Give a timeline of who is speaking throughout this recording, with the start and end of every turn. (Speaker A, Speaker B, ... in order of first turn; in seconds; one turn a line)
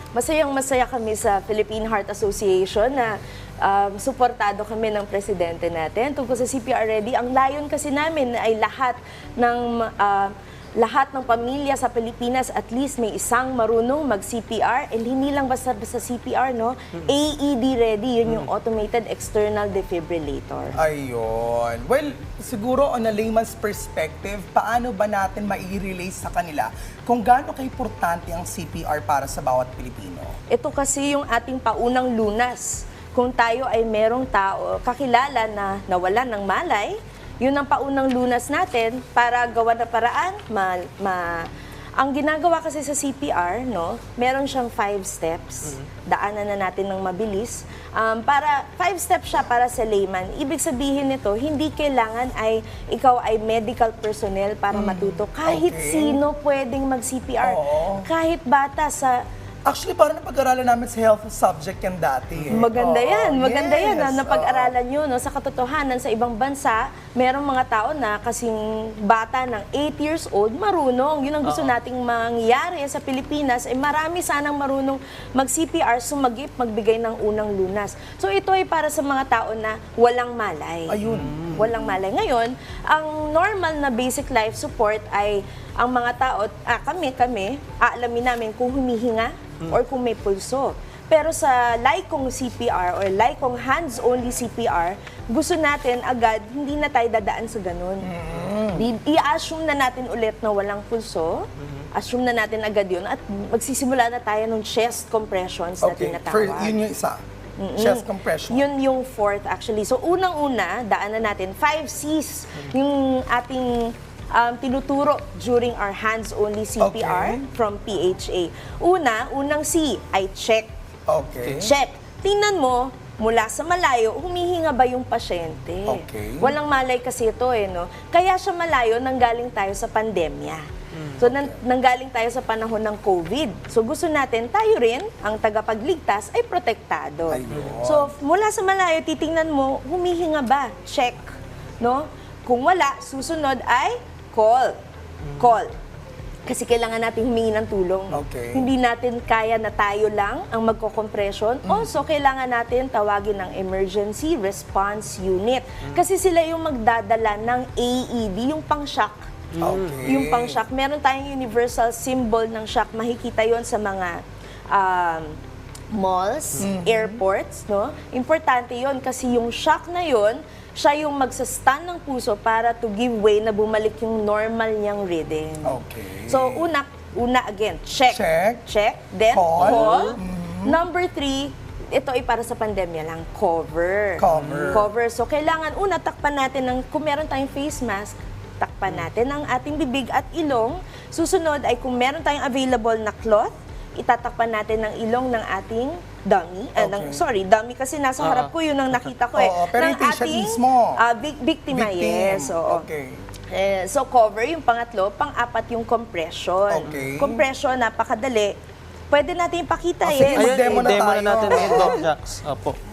Speaker A: 0.1-20.8
Speaker B: 20.7-30.3
Speaker A: 30.5-41.5
Speaker A: 42.0-59.2
Speaker B: 54.7-56.2
Speaker B: 57.4-58.1
Speaker B: 59.6-64.7
Speaker A: 62.5-81.0
Speaker C: 71.4-71.7
Speaker B: 80.9-82.0
Speaker C: 81.0-81.6
Speaker A: 81.5-98.1
Speaker B: 98.0-98.9
Speaker A: 98.7-106.8
Speaker C: 101.6-101.9
Speaker B: 105.8-107.2
Speaker A: 107.6-120.7
Speaker B: 107.8-108.7
Speaker B: 116.8-117.5
Speaker B: 121.1-121.7
Speaker A: 121.5-130.6
Speaker B: 125.8-126.5
Speaker C: 130.9-131.2
Speaker A: 131.2-141.2
Speaker B: 131.2-131.6
Speaker B: 137.3-138.1
Speaker C: 137.5-137.8
Speaker A: 141.8-144.7
Speaker C: 145.2-145.6
Speaker A: 145.4-145.7
Speaker A: 146.4-159.2
Speaker B: 148.1-148.7
Speaker C: 159.5-160.1
Speaker B: 159.6-160.6
Speaker A: 160.0-164.2
Speaker A: 164.7-165.4
Speaker A: 165.9-202.8
Speaker B: 166.6-167.2
Speaker B: 175.6-176.7
Speaker B: 178.1-178.6
Speaker B: 179.3-180.8
Speaker C: 179.6-180.2
Speaker B: 184.2-184.9
Speaker C: 184.3-184.9
Speaker B: 196.8-197.2
Speaker C: 198.2-199.1
Speaker B: 199.3-201.0
Speaker B: 201.7-203.2
Speaker A: 203.5-208.5
Speaker B: 206.7-207.4
Speaker A: 209.1-212.0
Speaker B: 210.0-212.0
Speaker C: 210.2-212.8